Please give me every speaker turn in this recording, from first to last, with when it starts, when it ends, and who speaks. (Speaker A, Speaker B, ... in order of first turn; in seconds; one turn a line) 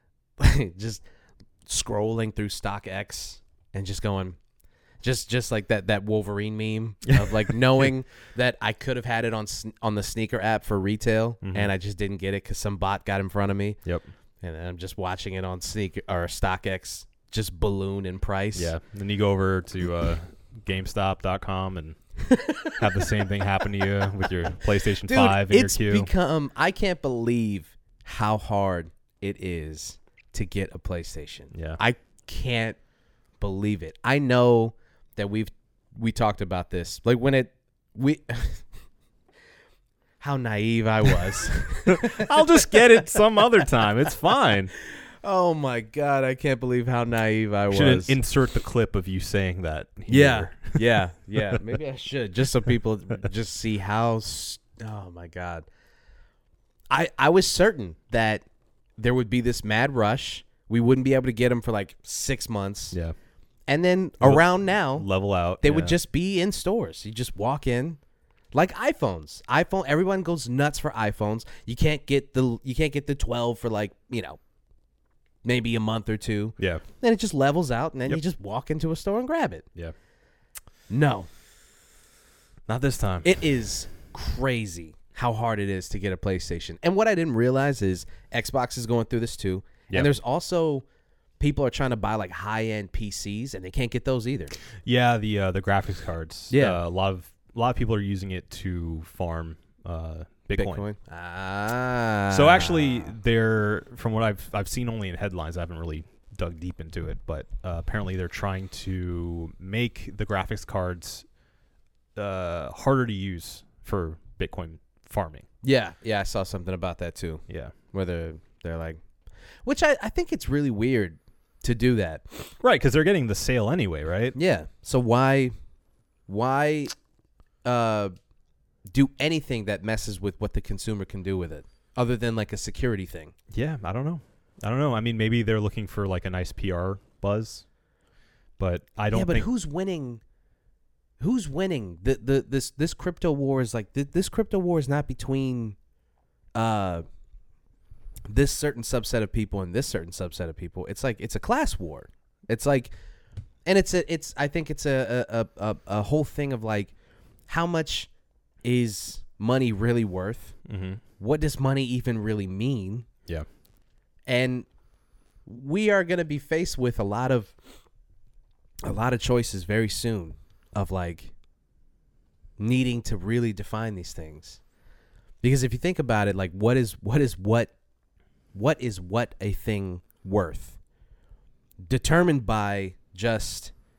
Speaker A: 0.4-1.0
Speaker A: 1.7-4.4
Speaker A: 5.0-13.8
Speaker B: 7.1-7.5
Speaker B: 11.4-11.7
Speaker A: 14.4-18.7
Speaker B: 18.6-22.0
Speaker A: 22.3-22.7
Speaker B: 22.7-26.1
Speaker A: 25.0-32.8
Speaker B: 31.5-31.8
Speaker A: 33.4-38.7
Speaker A: 40.2-43.1
Speaker B: 41.9-44.7
Speaker A: 44.8-48.2
Speaker B: 47.7-50.8
Speaker A: 50.1-55.7
Speaker B: 51.4-51.6
Speaker A: 56.9-58.4
Speaker A: 59.0-63.0
Speaker A: 63.7-65.1
Speaker B: 64.2-66.0
Speaker A: 65.6-68.0
Speaker A: 68.5-74.4
Speaker A: 75.4-79.7
Speaker B: 76.6-76.8
Speaker A: 80.9-81.3
Speaker B: 82.7-83.3
Speaker A: 83.2-90.8
Speaker A: 91.4-94.5
Speaker B: 94.8-100.8
Speaker A: 96.5-96.8
Speaker A: 100.5-103.1
Speaker B: 102.3-111.2
Speaker B: 112.2-115.5
Speaker A: 115.6-119.0
Speaker B: 117.5-117.7
Speaker A: 119.7-122.5
Speaker B: 122.6-124.4
Speaker A: 124.3-125.5
Speaker A: 126.3-126.9
Speaker A: 127.7-128.1
Speaker A: 128.9-133.3
Speaker B: 133.5-137.7
Speaker B: 138.6-139.5
Speaker A: 139.1-140.2
Speaker A: 141.2-145.8
Speaker A: 146.6-147.1
Speaker A: 148.3-152.9
Speaker A: 153.7-156.9
Speaker A: 157.5-158.1
Speaker A: 158.6-160.6
Speaker B: 160.7-161.0
Speaker A: 161.2-163.1
Speaker A: 164.3-164.7
Speaker A: 165.5-167.5
Speaker A: 168.8-171.3
Speaker A: 172.6-174.6
Speaker A: 175.4-177.7
Speaker A: 178.5-180.8
Speaker A: 181.8-183.7